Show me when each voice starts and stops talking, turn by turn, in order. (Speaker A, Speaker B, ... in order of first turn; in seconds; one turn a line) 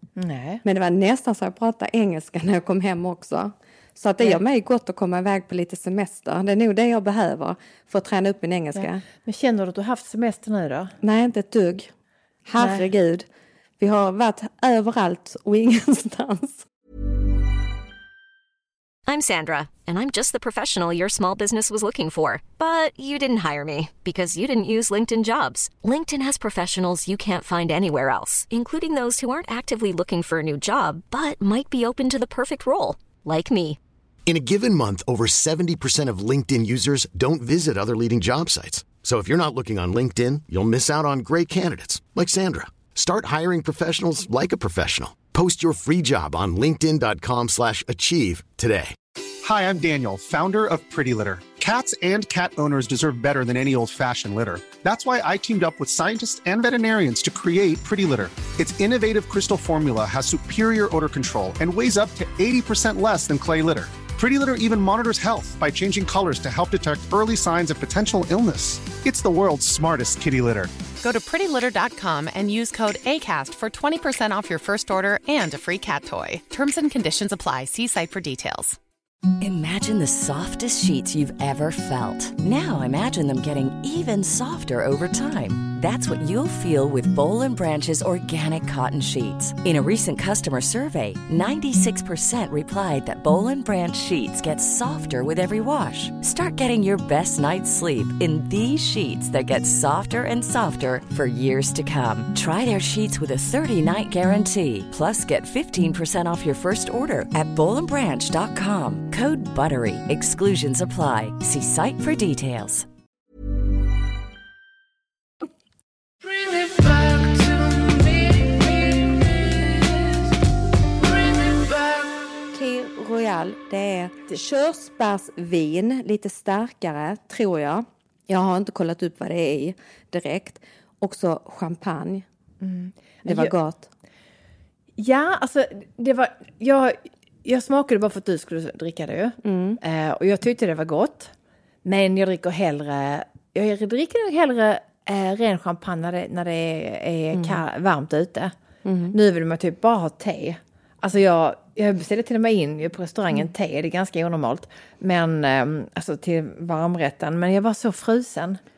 Speaker A: 0.1-0.6
Speaker B: 0.6-9.0
Speaker A: 8.7-10.9
Speaker B: 11.0-11.9
Speaker B: 12.4-13.2
Speaker A: 12.6-12.8
Speaker B: 13.8-16.6
Speaker C: 19.1-33.8
Speaker D: 34.2-48.9
Speaker E: 49.4-70.7
Speaker F: 71.0-78.8
Speaker G: 79.4-112.8
Speaker B: 122.5-132.2
Speaker A: 132.6-133.5
Speaker B: 133.2-133.9
Speaker A: 135.0-141.3
Speaker B: 139.4-139.8
Speaker A: 141.8-148.5
Speaker B: 147.3-147.6
Speaker B: 148.8-149.1
Speaker A: 149.1-158.6